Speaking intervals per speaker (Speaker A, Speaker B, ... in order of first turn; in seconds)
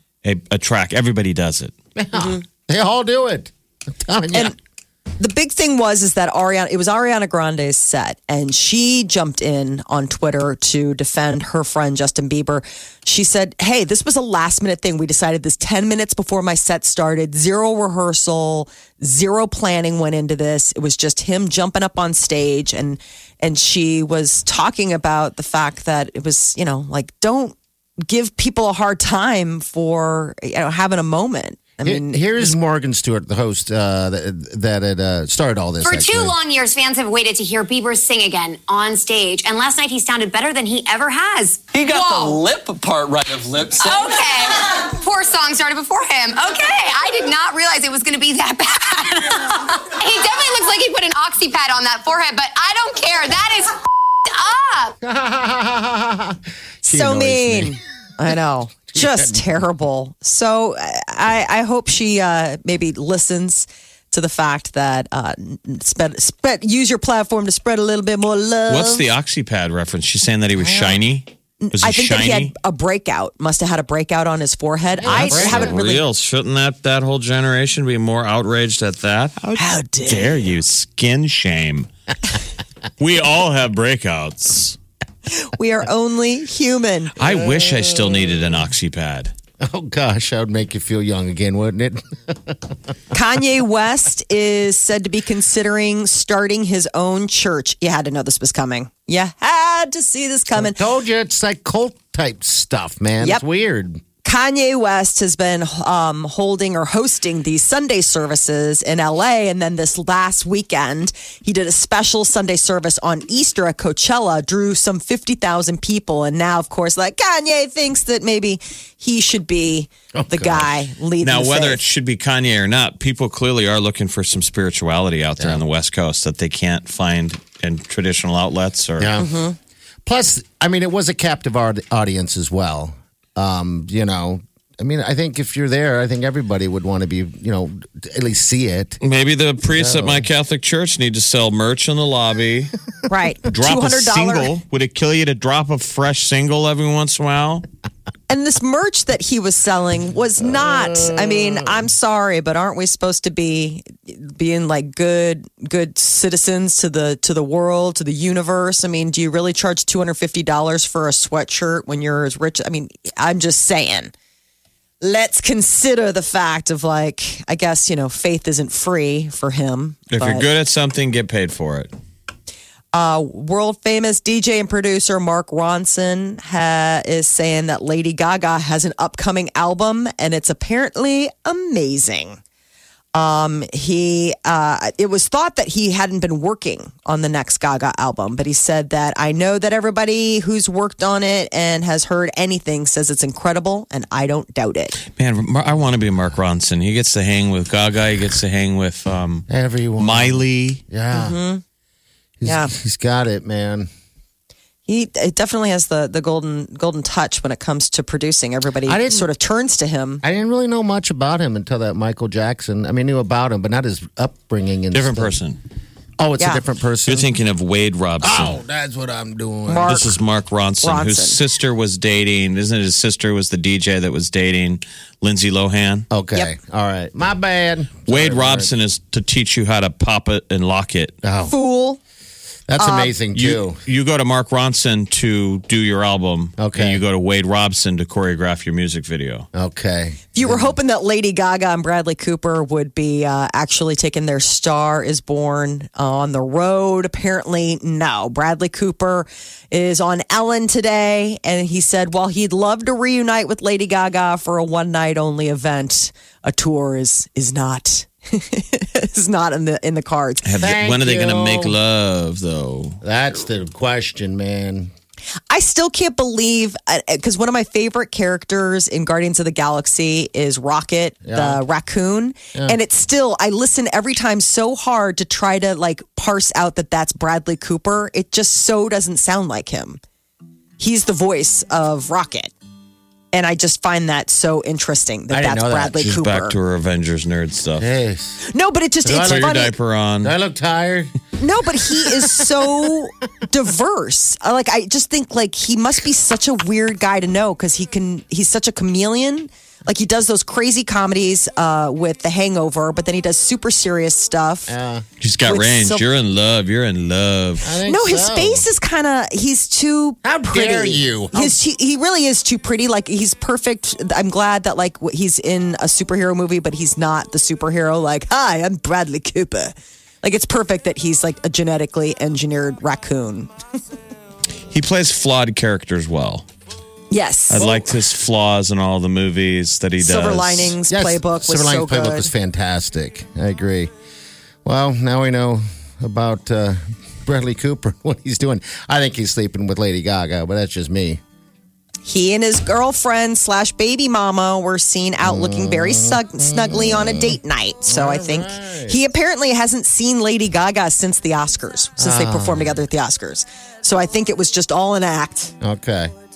Speaker A: 0.2-1.7, 68.7-72.5, 75.0-79.5, 80.0-81.9, 83.0-84.8, 87.2-89.3, 121.2-129.1, 139.0-142.7, 143.5-147.6, 170.1-171.9, 195.1-199.5, 200.0-200.8, 214.9-215.6, 217.1-218.6, 219.9-226.1, 228.1-231.2, 233.3-239.5, 260.4-263.0, 286.0-287.8, 289.1-290.3, 305.2-307.7, 324.7-326.4, 327.5-330.8
Speaker B: 1.9-4.5, 31.8-36.3, 55.0-57.8, 58.9-59.5, 70.6-71.0, 75.0-75.8, 87.2-88.6, 89.6-92.7, 100.5-104.0, 120.1-120.7, 129.0-129.4, 130.1-139.0, 139.7-140.2, 150.4-151.8, 199.5-201.4, 202.4-203.9, 208.8-209.3, 210.2-215.3, 216.2-217.3, 218.2-220.1, 226.1-228.7, 231.2-231.5, 232.7-233.8, 236.6-237.0, 239.5-240.8, 260.6-261.7, 263.0-264.9, 271.2-271.6, 285.3-286.0, 287.8-288.4, 289.0-289.7, 290.2-291.1, 292.1-292.4, 304.7-305.1, 307.6-308.7, 310.2-311.6, 330.9-333.9, 334.6-341.2, 345.2-349.0, 352.0-352.8, 355.6-356.1
Speaker C: 5.2-32.5, 56.8-69.0, 71.6-76.0, 79.5-80.3, 85.3-87.1, 93.1-100.8, 104.2-121.8, 129.2-129.5, 143.1-144.5, 148.3-164.1, 165.0-170.5, 172.9-182.4, 183.1-195.0, 201.1-201.6, 202.4-202.7, 204.9-210.2, 219.7-220.1, 220.8-221.4, 231.5-232.0, 232.8-233.1, 240.3-260.4, 265.5-280.0, 280.8-282.5, 283.3-286.6, 288.5-289.7, 291.4-304.7, 305.4-306.0, 307.8-323.5, 327.1-327.9, 330.0-332.3, 342.0-355.5
Speaker D: 35.8-42.4, 43.8-55.0
Speaker E: 41.7-44.1